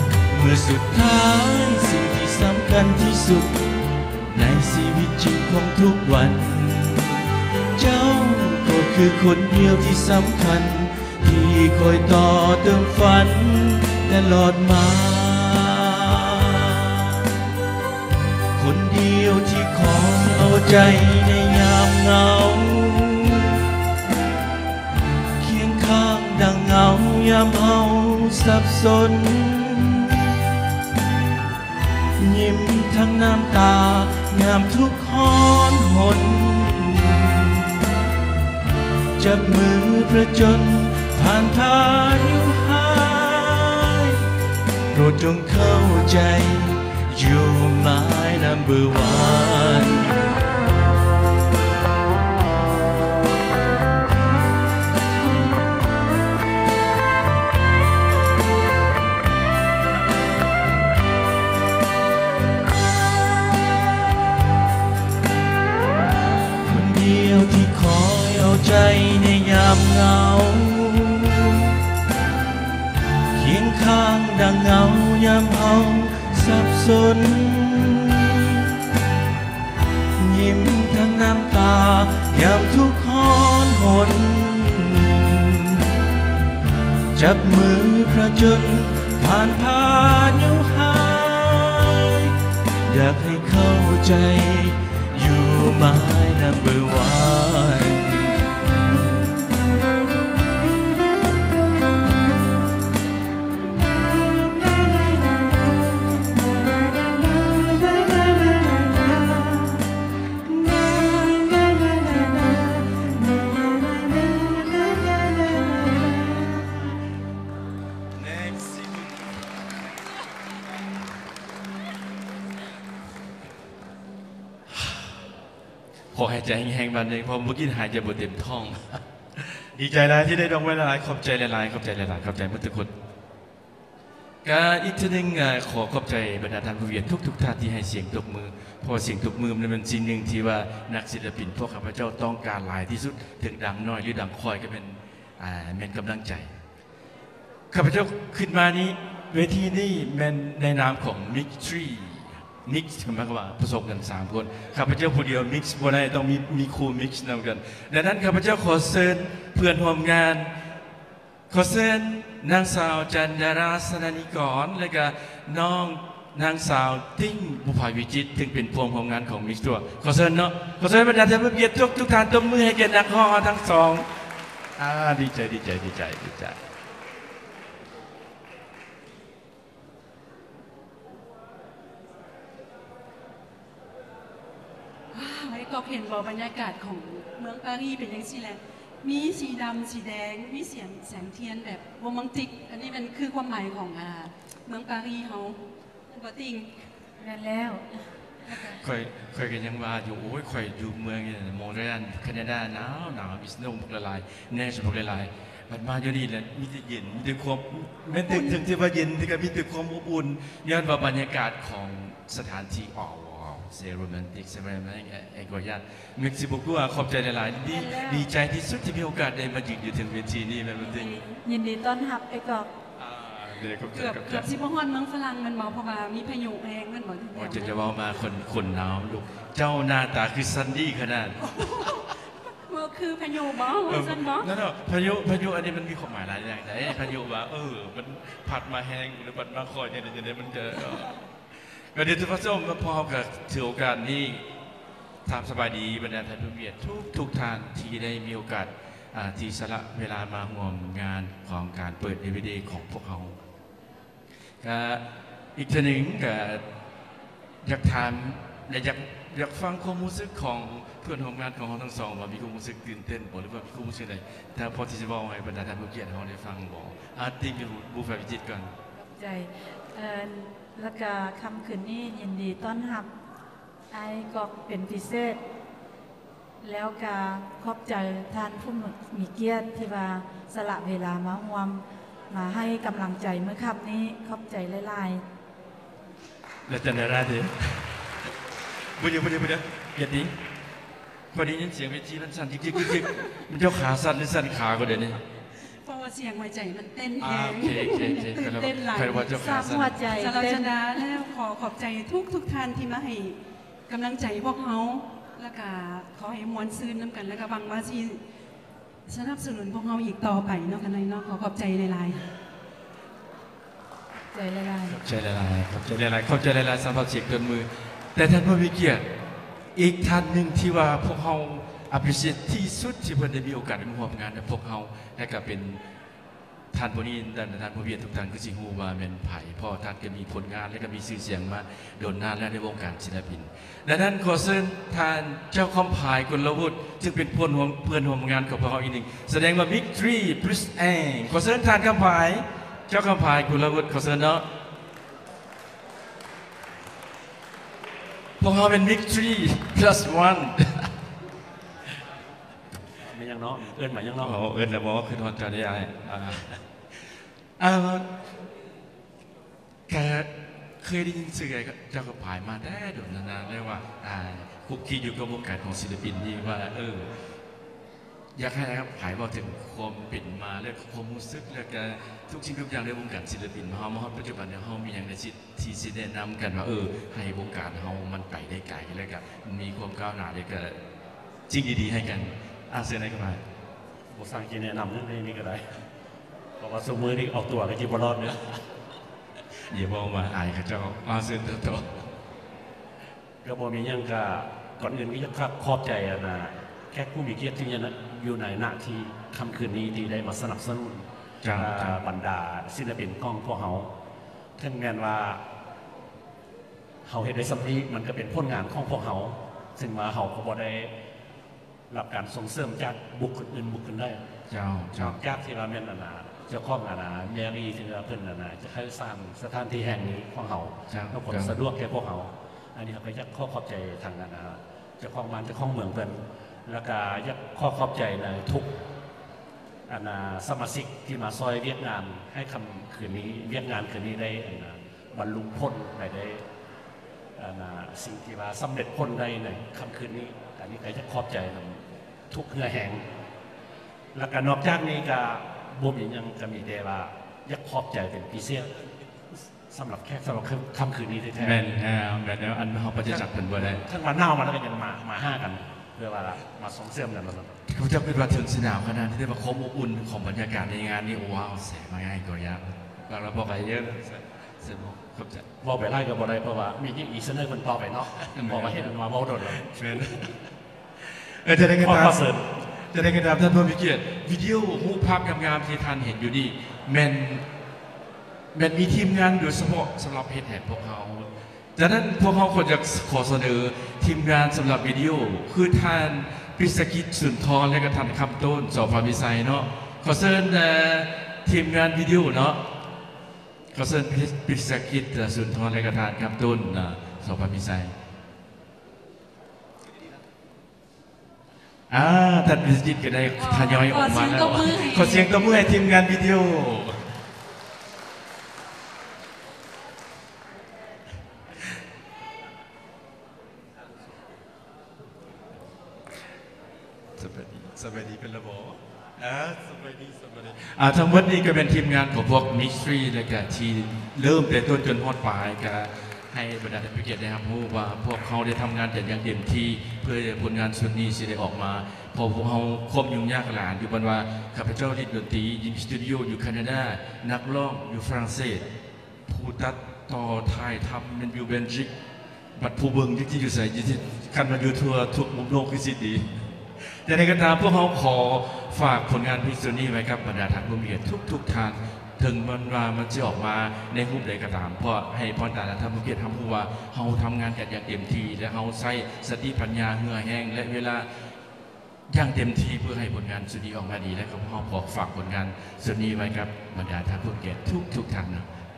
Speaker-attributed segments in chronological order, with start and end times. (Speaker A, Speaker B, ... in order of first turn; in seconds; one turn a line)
Speaker A: 0.3-3.7
Speaker A: 4.3-17.4
Speaker A: 18.6-23.7
Speaker A: 25.4-30.4
Speaker A: 32.2-37.9
Speaker A: 39.2-44.3
Speaker A: 44.9-50.3
Speaker A: 66.6-71.8
Speaker A: 73.3-78.9
Speaker A: 80.2-85.9
Speaker A: 87.1-98.7
Speaker A: 104.4-105.2
Speaker A: 107.2-109.9
Speaker A: 110.5-117.0
Speaker A: 118.1-119.4
Speaker A: 126.1-132.9
Speaker A: 134.4-146.6
Speaker A: 147.7-160.5
Speaker A: 161.5-174.2
Speaker A: 174.8-176.6
Speaker B: 185.1-196.8
Speaker C: 197.2-198.1
Speaker B: 198.4-198.8
Speaker A: 198.8-221.2
Speaker B: 208.2-208.6
Speaker C: 217.7-218.3
Speaker B: 220.8-221.4
Speaker C: 221.3-222.7
Speaker A: 223.0-224.5
Speaker B: 223.9-227.9
Speaker A: 227.3-232.0
Speaker B: 231.4-234.5
Speaker A: 233.8-241.2
Speaker A: 241.9-244.5
Speaker A: 245.2-253.4
Speaker A: 254.6-256.6
Speaker A: 257.6-268.7
Speaker C: 268.9-273.1
Speaker C: 273.9-275.4
Speaker C: 276.6-285.2
Speaker A: 286.7-288.3
Speaker A: 288.8-290.4
Speaker A: 291.3-295.2
Speaker B: 295.6-308.2
Speaker A: 297.2-300.0
Speaker C: 299.4-300.7
Speaker B: 309.1-312.3
Speaker C: 314.3-315.0
Speaker A: 314.9-319.1
Speaker A: 319.8-325.8
Speaker A: 326.7-344.5
Speaker A: 348.4-350.9
Speaker D: 353.0-354.4
Speaker A: 354.2-356.6
Speaker A: 357.6-358.1
Speaker A: 359.9-367.2
Speaker A: 368.4-380.8
Speaker A: 381.5-383.4
Speaker D: 384.1-385.7
Speaker D: 386.6-388.6
Speaker A: 389.7-391.9
Speaker D: 393.4-403.9
Speaker A: 401.4-402.0
Speaker D: 404.6-405.4
Speaker D: 407.1-410.9
Speaker D: 411.9-414.2
Speaker A: 414.5-415.2
Speaker D: 415.0-428.8
Speaker A: 420.9-421.6
Speaker D: 429.9-436.4
Speaker D: 437.4-443.0
Speaker D: 444.1-448.8
Speaker D: 449.6-451.6
Speaker A: 451.4-453.8
Speaker D: 453.1-457.6
Speaker A: 457.7-465.5
Speaker D: 465.6-469.6
Speaker A: 468.3-468.9
Speaker A: 469.5-470.4
Speaker A: 471.0-477.4
Speaker D: 471.8-472.5
Speaker A: 478.5-492.6
Speaker A: 493.7-497.9
Speaker A: 501.9-507.2
Speaker B: 503.3-505.6
Speaker A: 517.2-538.7
Speaker A: 539.3-541.9
Speaker A: 542.6-561.3
Speaker A: 562.1-568.5